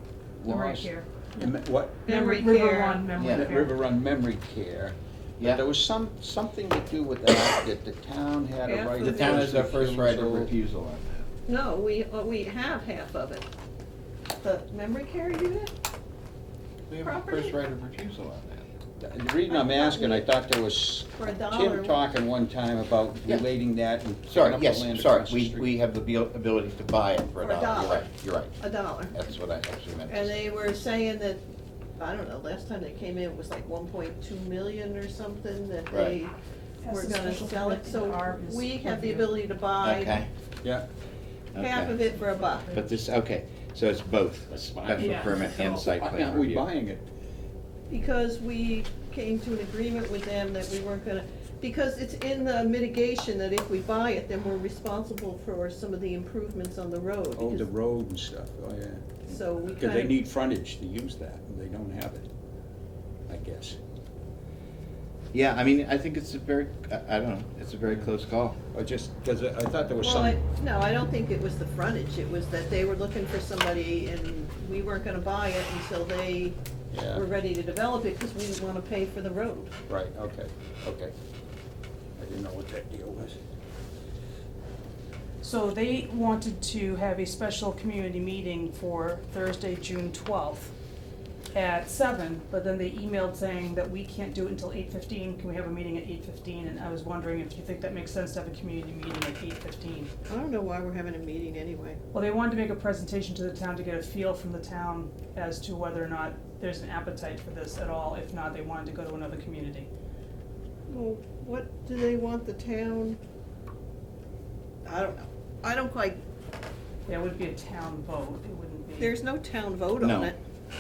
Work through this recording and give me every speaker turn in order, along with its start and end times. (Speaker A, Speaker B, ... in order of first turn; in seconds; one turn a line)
Speaker A: 0.4-2.0
Speaker B: 0.5-1.1
Speaker C: 2.1-3.0
Speaker B: 2.1-3.8
Speaker D: 3.2-3.5
Speaker A: 3.3-10.5
Speaker D: 5.4-5.7
Speaker C: 8.6-9.5
Speaker D: 9.0-11.3
Speaker C: 11.5-13.5
Speaker C: 14.4-15.7
Speaker D: 16.9-18.6
Speaker C: 17.0-17.6
Speaker A: 19.0-25.7
Speaker C: 19.5-20.3
Speaker C: 21.2-22.0
Speaker D: 24.3-28.6
Speaker C: 27.4-29.1
Speaker D: 29.1-30.4
Speaker C: 30.1-31.4
Speaker C: 32.0-36.3
Speaker D: 35.9-36.2
Speaker B: 36.8-39.5
Speaker C: 36.9-40.2
Speaker D: 39.8-40.3
Speaker D: 41.5-42.0
Speaker C: 41.6-42.7
Speaker B: 42.1-43.0
Speaker D: 42.7-46.7
Speaker A: 44.5-47.1
Speaker B: 45.0-45.4
Speaker C: 47.9-57.7
Speaker A: 57.4-59.0
Speaker C: 59.3-60.2
Speaker A: 59.8-62.3
Speaker A: 63.3-63.8
Speaker D: 65.3-68.6
Speaker A: 68.7-70.4
Speaker C: 70.0-76.6
Speaker A: 76.9-77.2
Speaker C: 77.1-79.8
Speaker A: 79.9-81.1
Speaker A: 82.2-83.4
Speaker B: 85.4-90.7
Speaker B: 91.5-100.1
Speaker C: 100.3-102.0
Speaker B: 102.1-109.9
Speaker C: 110.9-113.2
Speaker C: 114.8-116.2
Speaker B: 117.1-119.2
Speaker C: 119.0-120.4
Speaker D: 120.0-120.3